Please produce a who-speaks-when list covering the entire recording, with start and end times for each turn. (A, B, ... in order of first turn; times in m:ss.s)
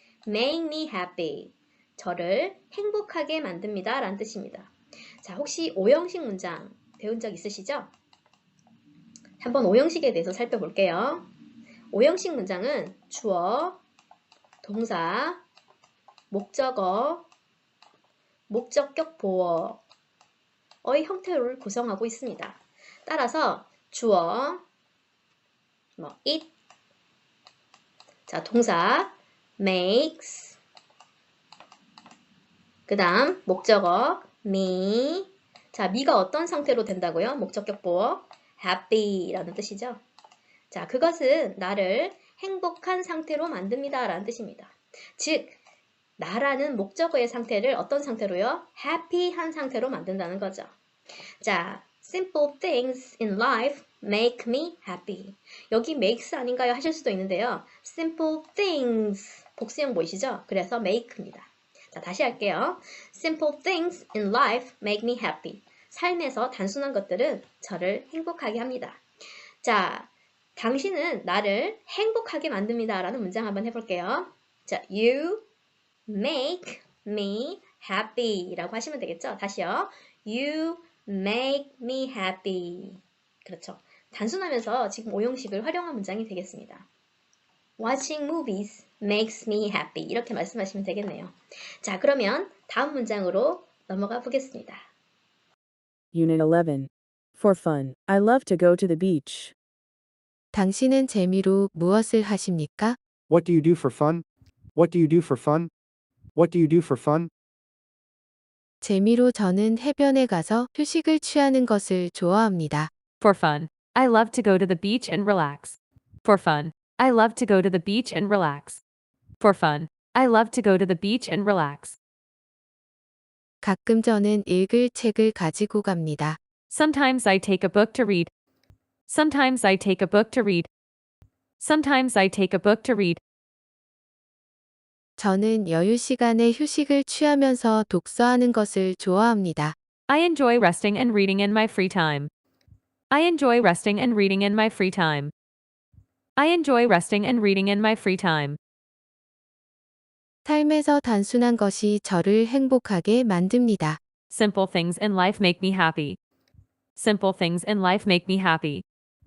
0:00.2-0:07.9 A
0:09.4-0:11.3 A
0:11.9-0:13.8 A
0:14.6-0:15.4 A
0:16.3-0:17.2 A
0:18.5-0:19.8 A
0:20.8-0:24.6 A
0:26.0-0:26.5 A
0:28.3-0:30.6 A
0:32.9-0:40.0 A
0:40.7-0:45.6 A
0:46.2-0:50.7 A
0:51.4-1:09.0 A
1:09.6-1:15.4 A
1:16.1-1:26.8 A
1:27.8-1:34.9 A
1:36.1-1:39.6 B
1:40.5-1:43.0 C
1:43.3-1:44.2 D
1:44.7-1:45.7 D
1:46.3-1:47.3 D
1:48.8-1:52.9 C
1:53.2-1:58.8 E
1:59.4-2:02.0 E
2:03.6-2:06.4 C
2:06.7-2:08.3 E
2:09.1-2:10.7 E
2:11.6-2:13.2 E
2:15.2-2:19.8 C
2:20.1-2:22.3 E
2:23.1-2:25.3 E
2:26.4-2:28.6 E
2:30.4-2:34.0 C
2:34.3-2:36.2 E
2:37.0-2:38.8 E